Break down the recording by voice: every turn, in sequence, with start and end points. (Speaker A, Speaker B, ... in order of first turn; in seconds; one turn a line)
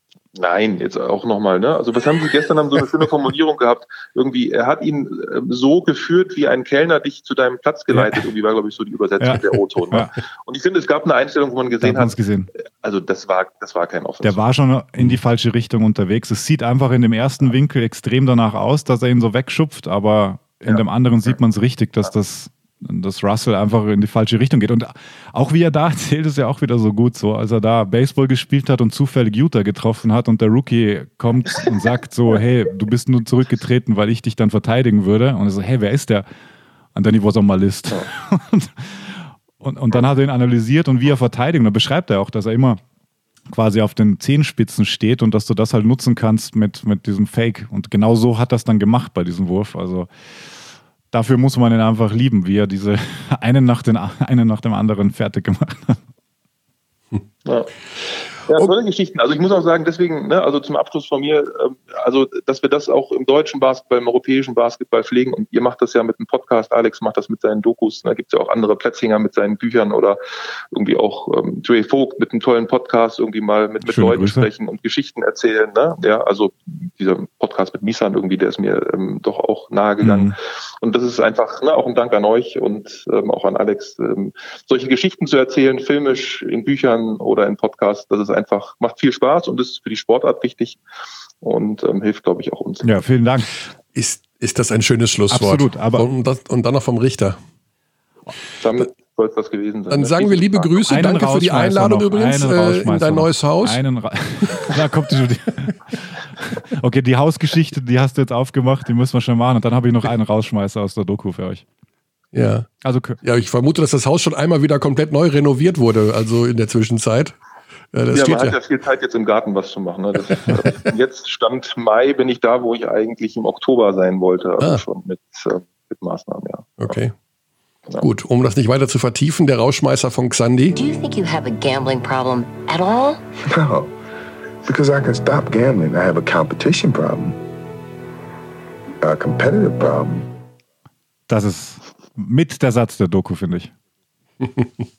Speaker A: 0.3-12.2
Speaker B: 7.9-8.2
Speaker B: 9.2-10.1
Speaker B: 11.8-12.5
Speaker A: 12.8-14.4
Speaker B: 14.2-36.3
Speaker A: 20.6-21.4
Speaker B: 36.9-42.8
Speaker B: 43.5-50.1
Speaker B: 51.1-56.0
Speaker A: 57.5-57.7
Speaker A: 58.5-70.2
Speaker A: 70.7-90.8
Speaker B: 73.8-74.5
Speaker B: 80.0-80.3
Speaker A: 91.4-93.0
Speaker B: 92.8-93.6
Speaker C: 93.9-97.4
Speaker B: 95.3-96.1
Speaker A: 98.6-100.9
Speaker C: 99.9-103.8
Speaker B: 100.9-111.6
Speaker C: 112.3-112.7
Speaker B: 112.8-113.2
Speaker C: 113.2-117.3
Speaker C: 117.9-118.5
Speaker A: 118.1-127.0
Speaker C: 126.8-127.1
Speaker C: 128.0-130.8
Speaker D: 130.7-133.2
Speaker E: 133.5-133.9
Speaker E: 134.6-137.4
Speaker E: 139.0-140.3
Speaker B: 141.3-143.7